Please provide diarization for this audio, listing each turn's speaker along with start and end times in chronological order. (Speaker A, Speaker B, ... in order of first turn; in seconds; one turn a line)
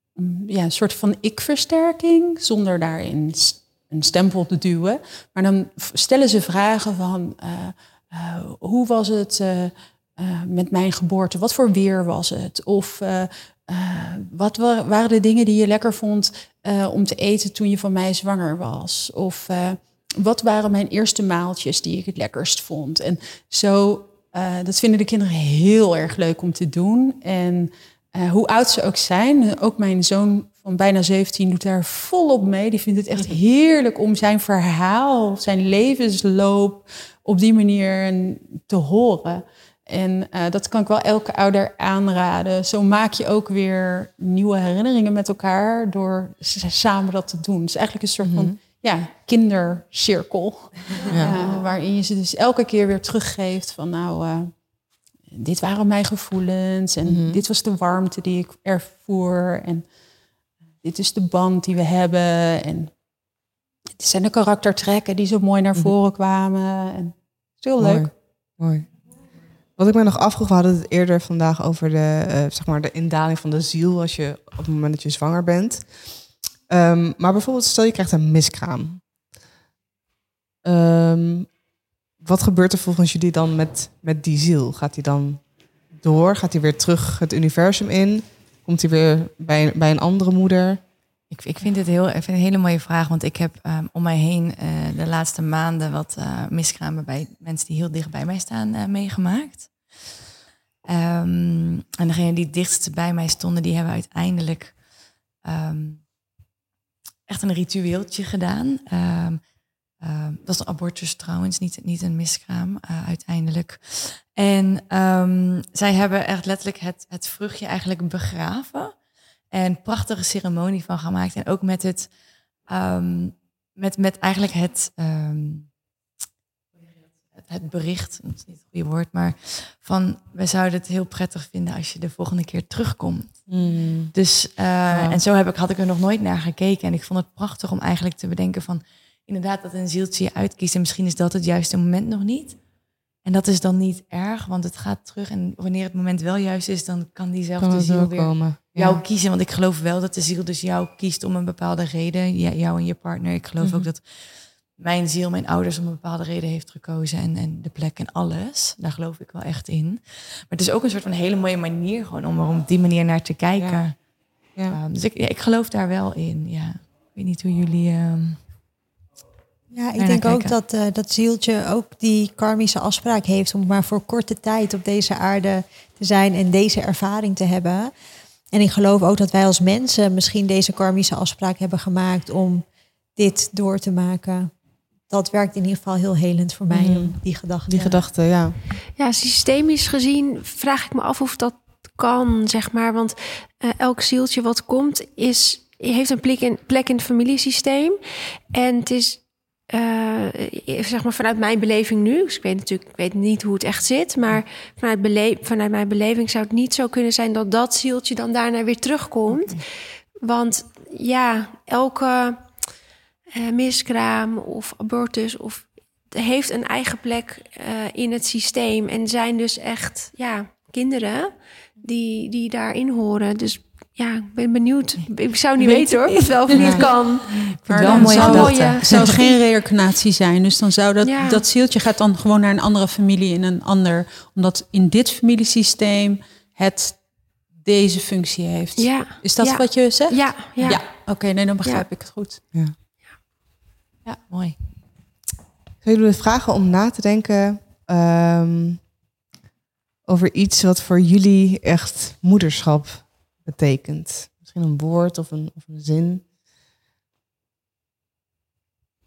Speaker A: 0.1-54.6
Speaker B: 48.2-48.6
Speaker A: 55.3-59.9
Speaker B: 57.0-57.4
Speaker A: 60.8-62.9
Speaker A: 64.0-68.1
Speaker B: 67.8-68.9
Speaker B: 69.8-79.0
Speaker B: 80.6-81.6
Speaker B: 82.2-90.8
Speaker C: 91.3-100.1
Speaker C: 100.8-104.8
Speaker C: 105.3-106.1
Speaker C: 107.3-122.1
Speaker C: 122.6-125.7
Speaker C: 127.3-142.6
Speaker B: 133.5-134.1
Speaker B: 134.9-135.2
Speaker C: 143.2-164.0
Speaker B: 147.6-149.0
Speaker B: 153.6-153.9
Speaker C: 164.7-168.4
Speaker D: 169.7-177.9
Speaker C: 170.0-170.5
Speaker D: 178.5-182.6
Speaker D: 183.2-184.5
Speaker D: 185.1-188.1
Speaker B: 186.7-188.6
Speaker E: 188.9-198.0
Speaker E: 198.5-209.6
Speaker C: 209.3-209.6
Speaker E: 210.2-212.6
Speaker E: 213.3-229.3
Speaker A: 225.6-242.4
Speaker B: 226.6-226.9
Speaker C: 227.3-229.1
Speaker B: 227.9-229.1
Speaker E: 231.0-231.4
Speaker E: 238.8-240.8
Speaker C: 244.3-244.6
Speaker B: 245.8-248.8
Speaker B: 250.1-256.2